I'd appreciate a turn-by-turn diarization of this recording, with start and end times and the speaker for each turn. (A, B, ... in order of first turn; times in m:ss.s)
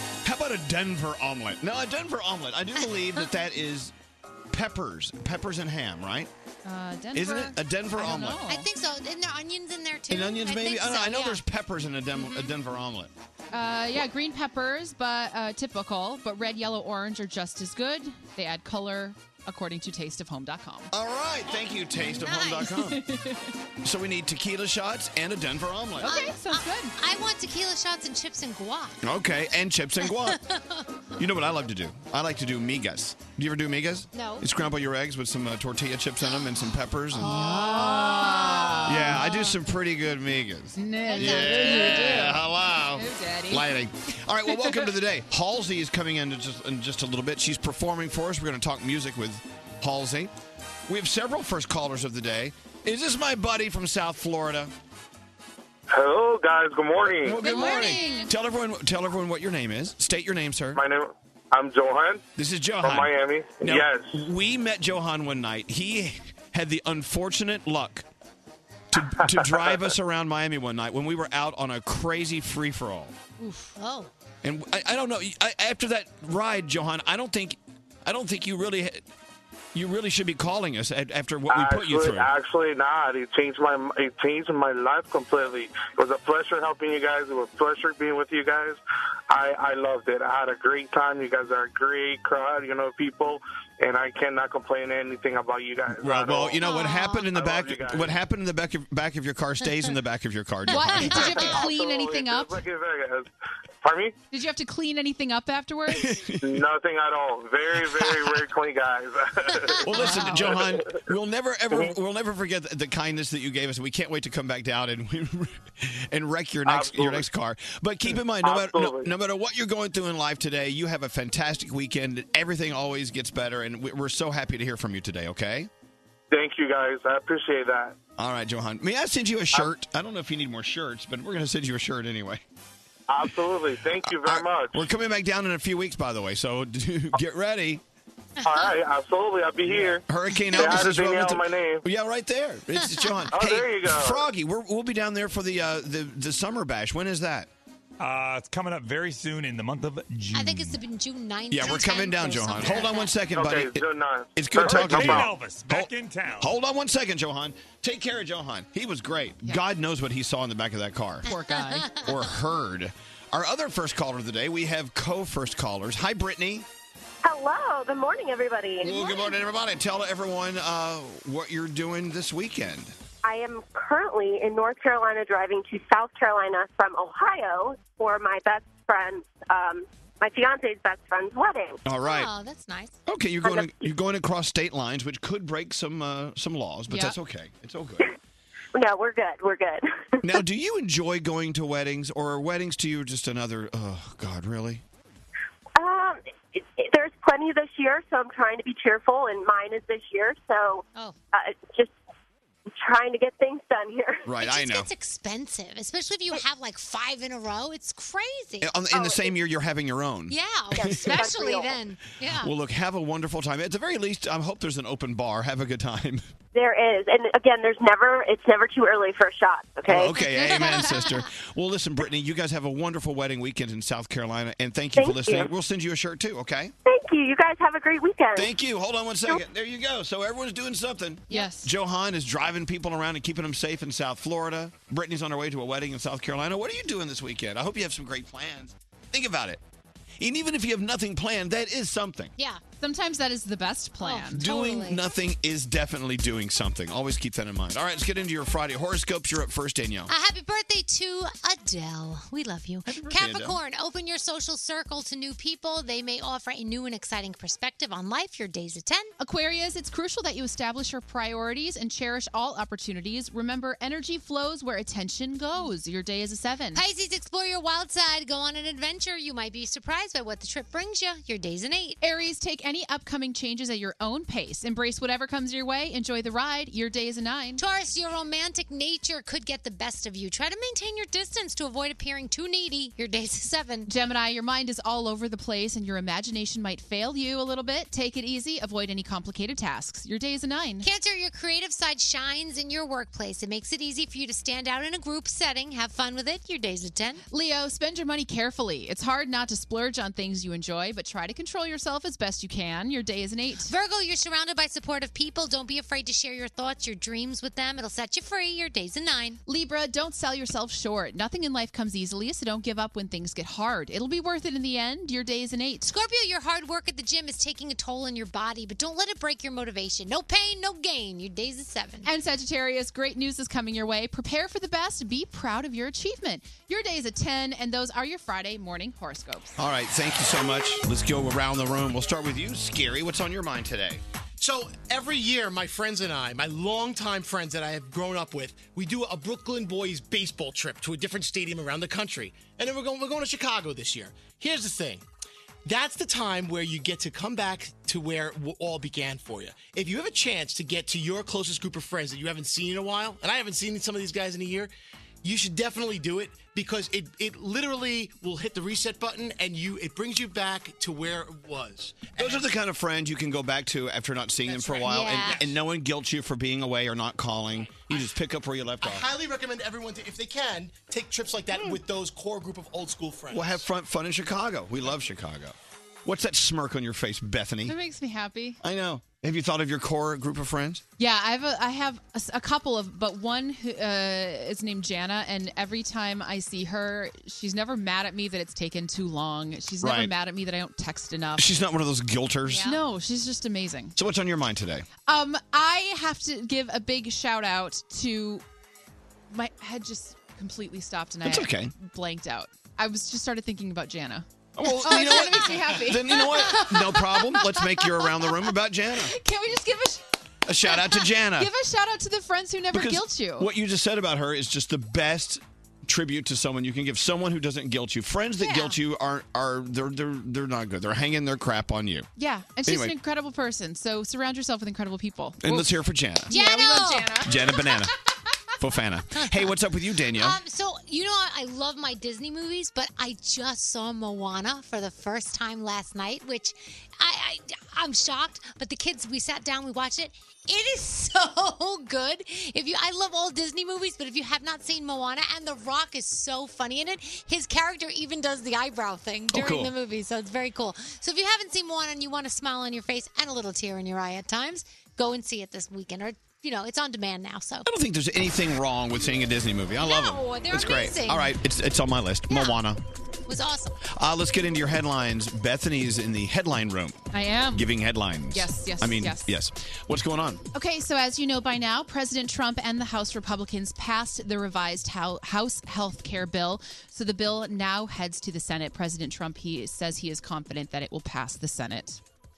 0:00.2-0:03.9 A
0:04.5-0:06.3 A
0:06.6-0:08.6 B
0:07.1-0:08.4 A
0:08.4-0:11.4 C
0:10.1-0:13.1 A
0:12.2-0:12.5 C
0:13.5-0:20.9 B
0:20.9-0:23.0 A
0:21.5-0:22.8 C
0:22.8-0:23.5 B
0:23.8-0:26.1 A
0:26.0-0:26.9 B
0:26.0-0:29.0 C
0:29.0-0:30.4 A
0:30.0-0:30.9 C
0:31.2-0:37.7 A
0:34.1-0:34.5 C
0:36.2-0:39.5 C
0:37.2-0:39.2 B
0:38.8-0:50.3 A
0:40.7-0:43.7 B
0:41.1-0:42.3 C
0:50.9-0:54.7 A
0:55.9-0:57.4 D
0:57.2-1:00.8 A
0:57.4-0:58.3 C
0:57.7-0:58.2 B
1:00.8-1:02.2 D
1:02.4-1:08.0 A
1:02.8-1:04.1 D
1:08.9-1:13.1 A
1:09.4-1:09.8 D
1:13.4-1:14.1 C
1:14.4-1:19.0 A
1:19.7-1:22.3 A
1:21.5-1:28.8 D
1:29.3-1:36.6 D
1:36.0-1:41.5 A
1:36.6-1:37.3 C
1:37.3-1:38.2 D
1:40.7-1:42.6 B
1:40.8-1:41.3 C
1:41.3-1:43.3 D
1:43.8-1:44.2 D
1:44.3-1:46.1 B
1:45.9-1:46.6 A
1:46.4-1:51.0 D
1:47.9-1:48.4 A
1:49.8-2:05.7 A
1:50.0-1:50.5 B
1:56.6-1:57.2 D
1:58.4-1:59.1 D
2:06.3-2:08.0 D
2:08.2-2:12.4 A
2:13.1-2:14.8 D
2:14.1-2:17.8 A
2:18.4-2:18.7 C
2:18.4-2:20.0 D
2:19.6-2:27.5 A
2:20.3-2:20.8 C
2:20.6-2:21.8 D
2:22.9-2:23.3 C
2:23.3-2:24.3 D
2:28.0-2:30.8 E
2:30.3-2:33.1 C
2:31.5-2:41.3 A
2:33.3-2:35.3 D
2:34.6-2:36.5 E
2:41.2-2:42.3 C
2:41.9-2:46.6 A
2:47.2-2:49.3 F
2:48.8-2:52.9 A
2:53.2-3:01.8 F
3:01.8-3:02.3 A
3:02.0-3:03.0 C
3:03.1-3:08.1 A
3:03.5-3:03.8 F
3:06.9-3:07.2 B
3:08.7-3:10.2 F
3:10.2-3:14.8 A
3:15.8-3:21.9 F
3:22.8-3:24.2 F
3:24.2-3:24.9 A
3:24.4-3:28.7 C
3:28.6-3:31.4 A
3:28.9-3:29.3 F
3:30.3-3:32.5 C
3:30.8-3:31.8 F
3:32.4-3:36.3 A
3:36.5-3:40.1 F
3:39.8-3:46.7 A
3:40.1-3:41.3 C
3:45.0-3:45.5 F
3:46.8-3:48.5 F
3:48.4-3:59.6 A
3:51.3-3:51.7 B
4:00.2-4:02.3 A
4:02.8-4:04.5 B
4:04.0-4:05.0 C
4:04.3-4:10.1 A
4:10.1-4:19.1 C
4:12.8-4:13.6 A
4:19.2-4:26.8 B
4:26.7-4:32.0 C
4:32.0-4:37.6 B
4:37.6-4:43.9 C
4:43.9-4:50.9 B
4:50.8-4:57.2 C
4:57.3-5:03.7 B
5:03.6-5:09.4 C
5:09.4-5:15.9 B
5:15.8-5:22.1 C
5:22.0-5:29.6 B
5:29.6-5:34.0 A
5:34.4-5:45.0 G
5:45.6-5:54.7 G
5:55.2-6:02.5 G
6:02.2-6:09.1 A
6:04.4-6:05.5 G
6:04.8-6:05.4 C
6:07.7-6:08.0 G
6:08.8-6:13.6 G
6:13.3-6:17.7 A
6:17.6-6:18.6 B
6:18.6-6:20.8 A
6:21.0-6:31.5 B
6:29.8-6:30.1 A
6:31.4-6:32.7 A
6:32.5-6:32.8 C
6:32.6-6:34.0 B
6:34.0-6:34.8 A
6:35.1-6:38.4 B
6:39.3-6:44.2 B
6:41.2-6:41.7 A
6:44.6-6:49.1 A
6:44.8-6:47.3 B
6:46.2-6:46.6 C
6:49.1-6:50.0 B
6:50.4-6:51.5 A
6:50.7-6:53.5 B
6:52.7-7:02.1 A
6:58.4-6:58.8 B
7:02.2-7:05.7 B
7:02.7-7:02.9 A
7:05.4-7:06.3 A
7:06.3-7:07.3 B
7:06.3-7:07.8 C
7:07.2-7:07.9 A
7:08.6-7:10.4 A
7:09.1-7:37.7 C
7:29.3-7:29.7 A
7:37.6-7:42.8 A
7:39.8-7:41.4 C
7:42.3-7:42.6 C
7:43.3-7:43.8 C
7:43.9-7:47.0 A
7:47.1-7:47.7 B
7:47.5-7:50.4 A
7:48.3-7:49.3 B
7:50.5-8:02.0 B